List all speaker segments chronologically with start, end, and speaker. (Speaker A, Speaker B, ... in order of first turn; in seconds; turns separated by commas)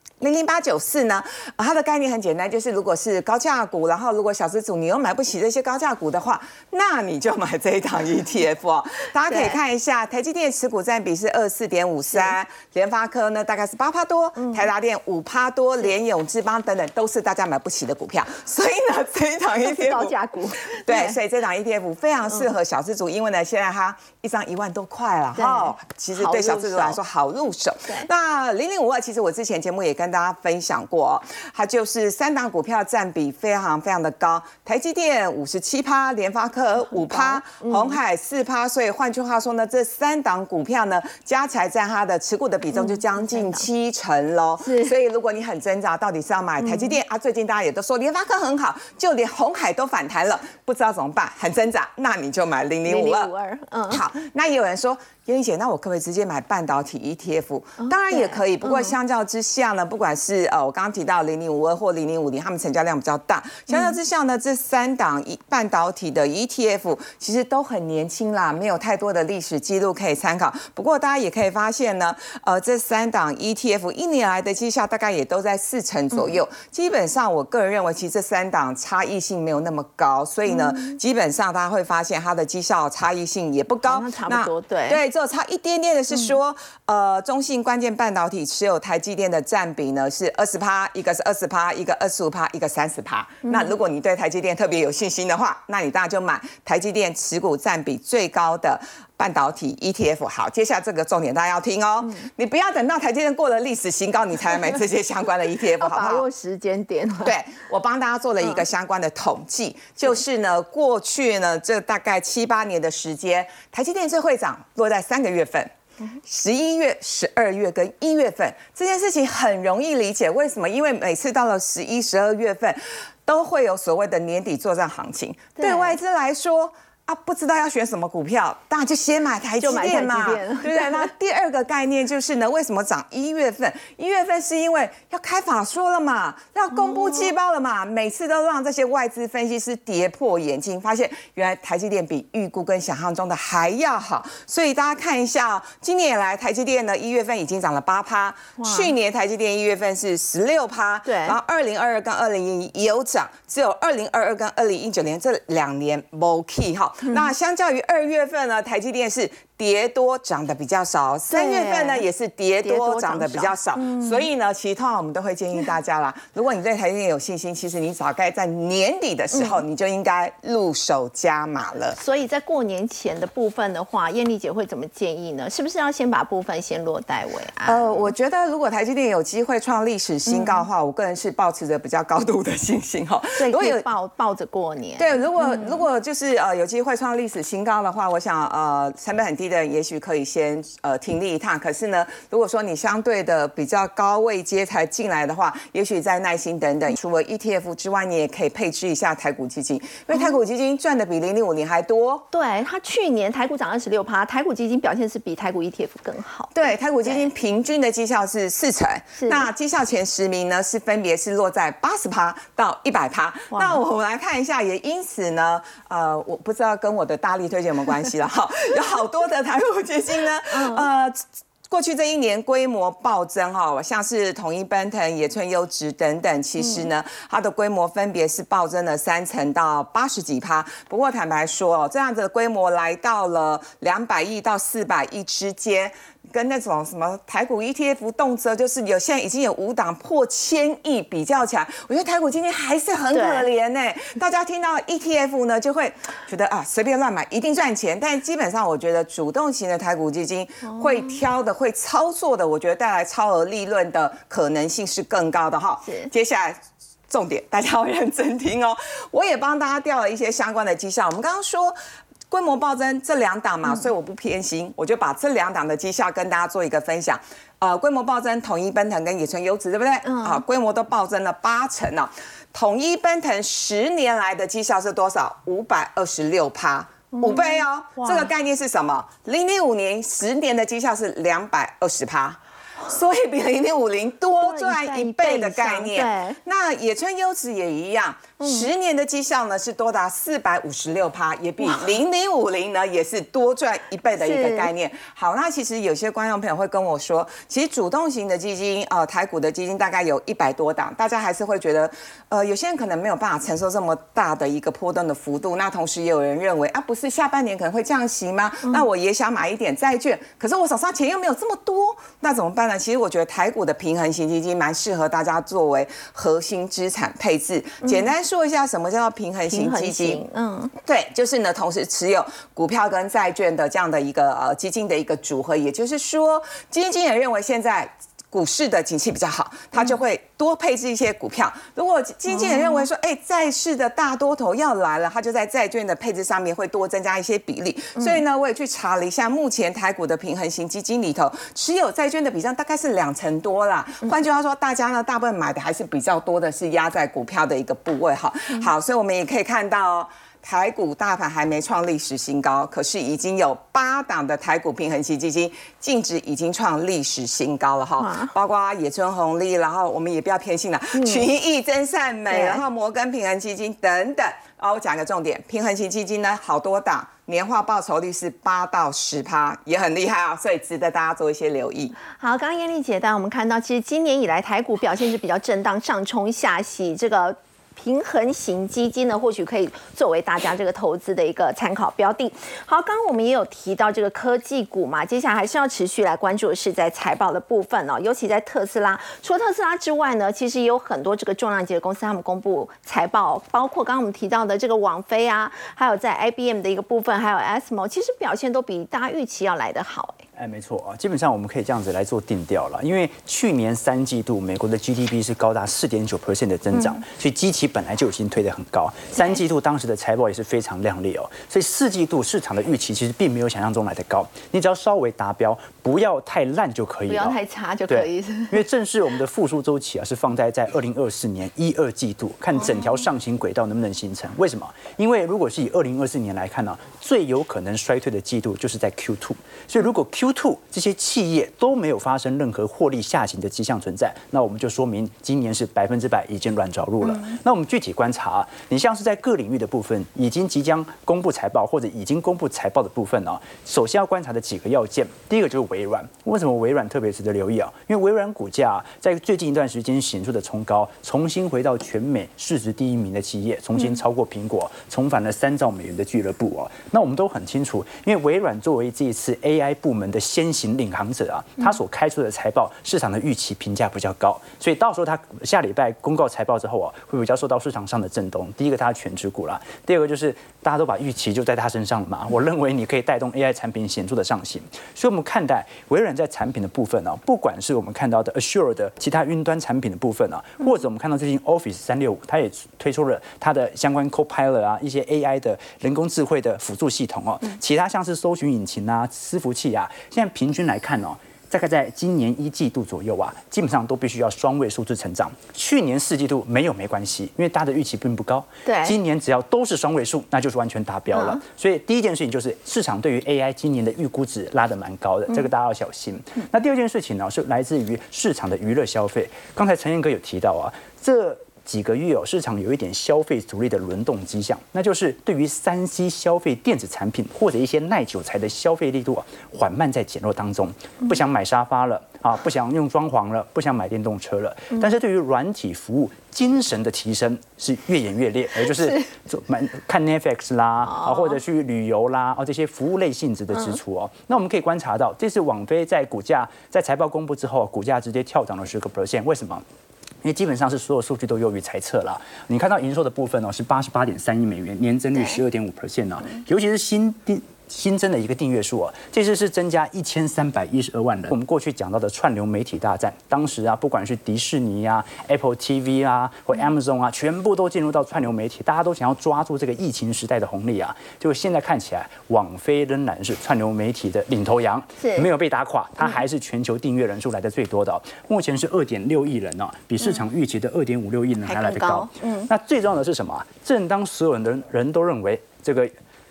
Speaker A: 0.2-20.1, Speaker B: 9.3-9.6, Speaker B: 14.4-14.6, Speaker B: 19.6-21.2, Speaker A: 20.7-53.3, Speaker B: 25.3-27.0, Speaker B: 36.9-38.0, Speaker B: 42.7-43.6, Speaker B: 44.6-44.9, Speaker B: 46.6-47.0, Speaker B: 52.9-54.0, Speaker A: 53.9-106.2, Speaker B: 57.8-58.9, Speaker B: 63.7-64.0, Speaker B: 76.1-76.4, Speaker B: 80.5-81.0, Speaker B: 83.8-85.0, Speaker B: 93.4-93.7, Speaker B: 105.8-107.3, Speaker A: 107.2-172.0, Speaker B: 125.6-126.0, Speaker B: 129.6-131.1, Speaker B: 136.8-137.3, Speaker B: 148.6-148.9, Speaker B: 151.1-151.4, Speaker B: 161.3-162.1, Speaker B: 162.6-164.3, Speaker B: 169.3-169.6, Speaker B: 172.0-178.0, Speaker A: 177.7-183.8, Speaker B: 180.3-180.7, Speaker B: 183.4-185.8, Speaker A: 185.0-202.2, Speaker B: 202.3-207.3, Speaker A: 206.5-261.8, Speaker B: 209.2-209.5, Speaker B: 213.5-213.8, Speaker B: 220.5-220.8, Speaker B: 226.6-226.8, Speaker B: 243.1-243.5, Speaker B: 250.7-251.1, Speaker B: 255.8-256.1, Speaker A: 262.3-320.2, Speaker B: 270.0-270.4, Speaker B: 277.1-278.3, Speaker B: 284.4-286.4, Speaker B: 288.4-288.7, Speaker B: 294.2-294.7, Speaker B: 317.8-318.1, Speaker B: 319.5-320.7, Speaker A: 320.8-372.0, Speaker B: 332.3-332.9, Speaker B: 358.0-358.3, Speaker B: 360.9-361.2, Speaker B: 362.3-362.6, Speaker B: 372.1-400.2, Speaker C: 400.4-539.6, Speaker B: 406.7-407.0, Speaker B: 417.1-418.6, Speaker B: 498.6-498.9, Speaker B: 501.1-501.4, Speaker C: 540.2-575.9, Speaker B: 565.0-565.3, Speaker B: 571.5-572.5